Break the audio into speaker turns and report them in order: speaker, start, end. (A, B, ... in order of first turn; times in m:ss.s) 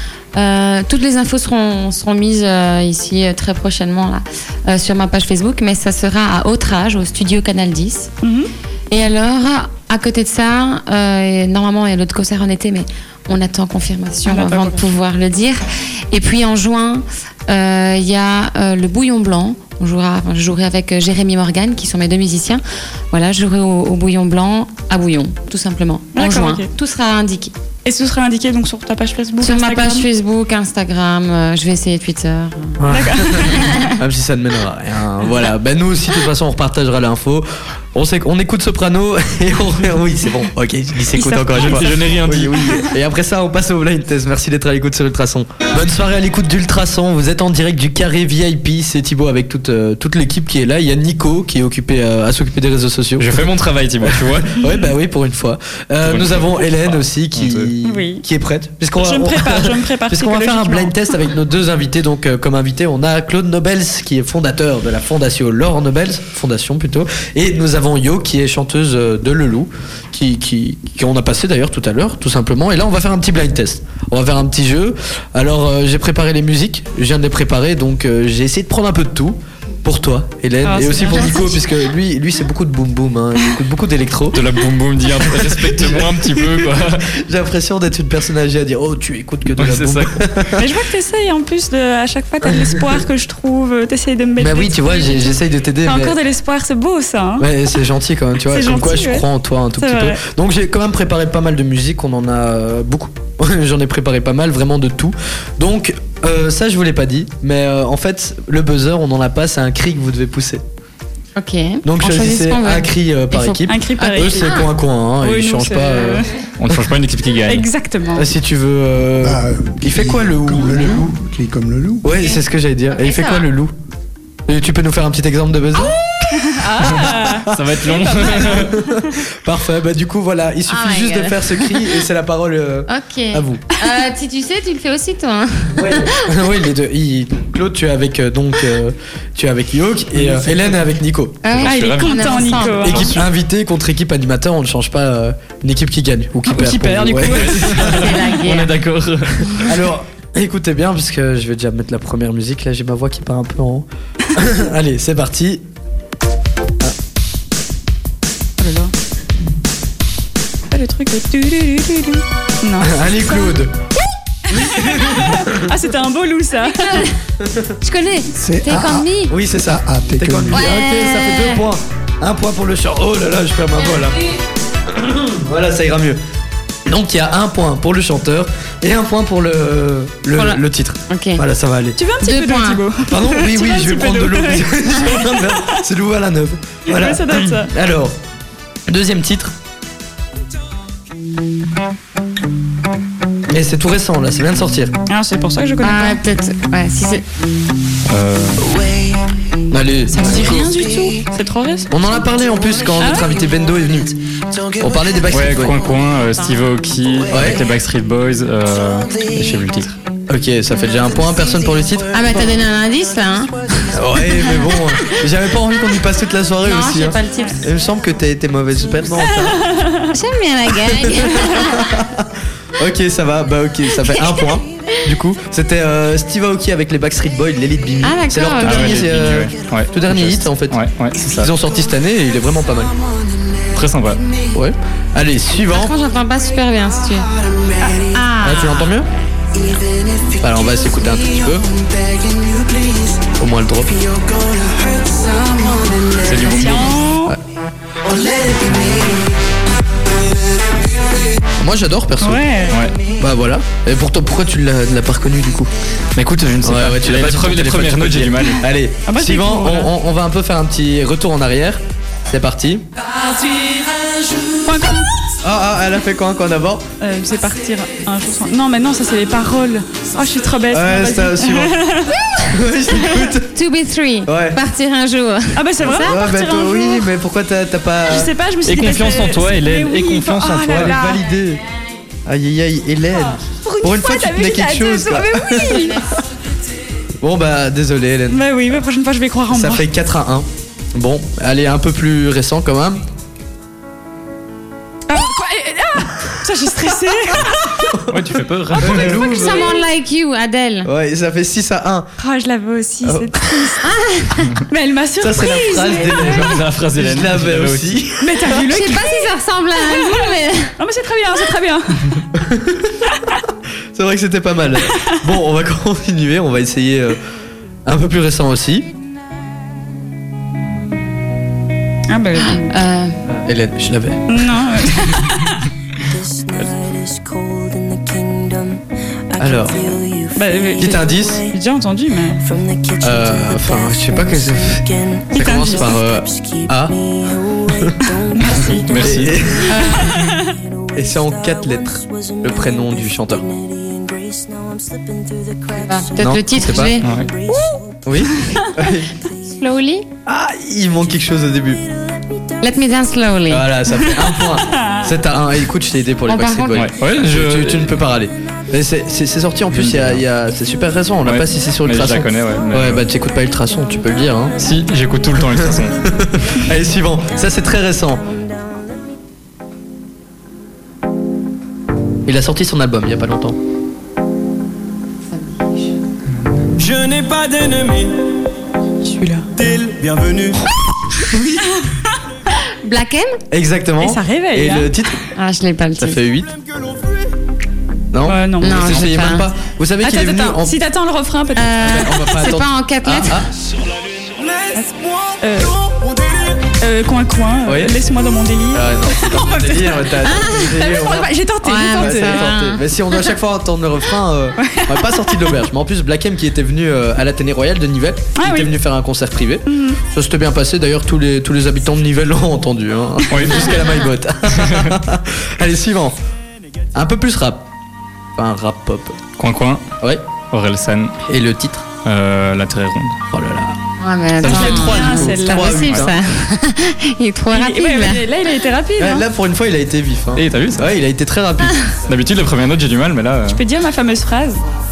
0:00.4-0:08.1 A
0:08.2-0:08.5 B
0:08.9-0:27.5 A
0:14.3-0:14.9 B
0:26.2-0:26.7 B
0:27.8-0:30.1 B
0:29.4-0:32.8 A
0:32.8-0:53.5 C
0:32.9-0:33.9 B
0:33.4-0:33.9 A
0:41.2-0:42.1 B
0:41.5-0:42.8 D
0:53.2-0:54.6 D
0:54.0-1:24.4 C
0:56.0-0:57.7 D
0:57.8-0:58.2 B
0:59.0-1:01.1 B
1:20.6-1:21.6 B
1:24.3-1:27.1 D
1:25.2-1:30.6 C
1:29.6-1:30.4 D
1:30.6-1:37.8 B
1:32.5-1:32.8 C
1:34.4-1:36.2 C
1:37.4-1:50.6 C
1:38.5-1:40.2 B
1:51.4-1:54.7 A
1:51.8-1:56.3 C
1:53.7-1:54.7 B
1:55.2-1:56.3 B
1:56.6-1:57.7 D
1:57.5-1:58.3 B
1:58.2-2:01.1 C
1:59.2-2:02.1 E
2:02.0-2:03.7 C
2:02.9-2:03.5 A
2:04.5-2:07.6 C
2:06.4-2:09.1 B
2:07.4-2:08.8 D
2:08.4-2:13.6 C
2:10.7-2:11.9 A
2:12.9-2:16.4 A
2:15.8-2:21.5 C
2:20.2-2:20.7 D
2:21.4-2:23.1 A
2:21.5-2:23.1 D
2:21.6-2:23.2 B
2:22.8-2:28.2 C
2:26.5-2:27.9 B
2:27.0-2:29.7 D
2:27.9-2:28.8 A
2:29.5-2:35.6 C
2:38.6-2:38.9 B
2:40.7-2:43.6 B
2:42.8-2:43.8 C
2:44.5-2:45.7 C
2:44.5-2:47.1 B
2:46.6-2:47.2 A
2:47.4-2:47.7 C
2:47.8-2:49.3 A
2:48.3-2:50.7 E
2:49.3-2:54.3 C
2:50.5-2:51.6 A
2:54.9-2:56.2 C
2:56.9-3:02.0 C
3:00.3-3:01.4 A
3:02.0-3:05.5 B
3:02.2-3:02.8 A
3:03.0-3:08.2 C
3:06.9-3:07.7 B
3:08.9-3:09.5 C
3:13.5-3:15.0 C
3:15.1-3:16.2 B
3:15.8-3:17.2 A
3:18.1-3:18.6 D
3:19.7-3:20.7 C
3:20.1-3:21.9 B
3:21.9-3:24.2 C
3:23.0-3:23.3 B
3:24.7-3:25.8 C
3:25.3-3:30.0 D
3:27.3-3:27.6 C
3:30.3-3:32.2 C
3:32.1-3:34.8 A
3:33.9-3:39.6 C
3:36.6-3:37.7 A
3:39.4-3:40.1 B
3:40.1-3:42.0 A
3:41.0-3:52.9 C
3:48.0-3:49.3 A
3:48.6-3:51.5 D
3:53.7-3:54.2 D
3:54.5-3:55.9 C
3:55.7-3:57.3 A
3:57.8-3:59.0 A
3:58.4-3:59.1 C
4:00.4-4:01.7 C
4:03.3-4:04.4 C
4:06.2-4:07.0 D
4:06.5-4:07.3 B
4:11.6-4:12.4 C
4:12.2-4:12.8 B
4:12.7-4:13.0 D
4:13.2-4:15.7 C
4:16.2-4:18.6 D
4:16.6-4:22.8 C
4:19.1-4:19.9 B
4:24.6-4:25.2 B
4:25.4-4:26.9 C
4:27.0-4:32.2 B
4:30.7-4:31.8 C
4:32.5-4:33.5 C
4:33.5-4:36.2 A
4:34.3-4:34.6 C
4:35.5-4:37.1 B
4:35.8-4:38.3 C
4:38.1-4:41.2 B
4:38.7-4:41.0 D
4:40.7-4:41.6 C
4:42.3-4:46.0 C
4:43.6-4:46.0 B
4:47.2-4:48.4 C
4:48.3-4:49.8 B
4:49.5-4:53.0 C
4:55.1-4:57.8 B
4:57.8-4:59.8 C
4:58.1-4:59.2 D
4:58.7-4:59.8 B
4:59.2-5:00.9 A
5:00.8-5:02.1 C
5:02.2-5:03.9 B
5:03.0-5:03.4 C
5:03.8-5:04.6 A
5:04.7-5:06.6 B
5:05.2-5:08.6 C
5:06.3-5:08.0 D
5:08.2-5:12.2 B
5:08.6-5:10.7 A
5:12.3-5:13.0 C
5:14.0-5:17.2 C
5:17.8-5:18.9 C
5:22.1-5:22.7 B
5:22.4-5:23.2 A
5:23.3-5:24.3 C
5:24.3-5:25.7 B
5:29.3-5:30.0 C
5:30.4-5:32.5 B
5:30.8-5:31.5 C
5:33.0-5:38.1 C
5:35.3-5:35.9 B
5:38.4-5:38.9 B
5:38.6-5:39.4 D
5:39.0-5:40.0 C
5:39.7-5:40.3 A
5:39.8-5:40.6 B
5:40.9-5:43.5 C
5:45.7-5:47.2 A
5:46.2-5:47.0 C
5:47.0-5:47.3 D
5:47.5-5:48.7 B
5:48.0-5:49.1 C
5:49.5-5:50.1 A
5:50.3-5:51.8 C
5:52.6-5:53.8 A
5:53.5-6:04.6 C
5:54.6-5:55.1 B
5:56.3-5:56.9 A
5:56.7-5:58.0 D
5:59.7-6:00.2 D
6:01.2-6:03.0 D
6:04.6-6:06.0 D
6:05.4-6:08.3 C
6:12.3-6:13.6 C
6:15.3-6:15.9 A
6:16.8-6:18.2 F
6:19.0-6:19.5 B
6:19.6-6:20.6 F
6:21.3-6:21.6 C
6:22.8-6:23.4 A
6:23.5-6:25.2 C
6:24.0-6:24.9 B
6:25.4-6:26.2 A
6:26.0-6:26.5 C
6:28.1-6:30.8 C
6:28.3-6:29.0 B
6:28.6-6:29.5 A
6:30.0-6:32.3 B
6:31.6-6:33.4 A
6:31.8-6:33.5 C
6:34.7-6:35.9 B
6:36.8-6:42.5 B
6:37.6-6:38.0 C
6:38.7-6:41.3 C
6:40.2-6:40.8 A
6:41.6-6:42.8 A
6:41.9-6:56.2 C
6:44.6-6:45.5 B
6:48.4-6:48.7 B
6:49.7-6:50.0 B
6:53.3-6:53.8 D
6:54.6-6:55.0 D
6:57.0-6:57.7 C
6:58.4-6:59.2 C
6:59.4-6:59.9 D
7:00.5-7:01.2 D
7:01.3-7:01.9 C
7:02.0-7:03.2 D
7:03.3-7:03.8 C
7:04.0-7:08.2 A
7:04.4-7:06.2 C
7:04.4-7:06.1 B
7:07.5-7:09.3 B
7:09.0-7:11.8 C
7:10.4-7:10.9 D
7:12.1-7:13.6 D
7:13.5-7:14.6 B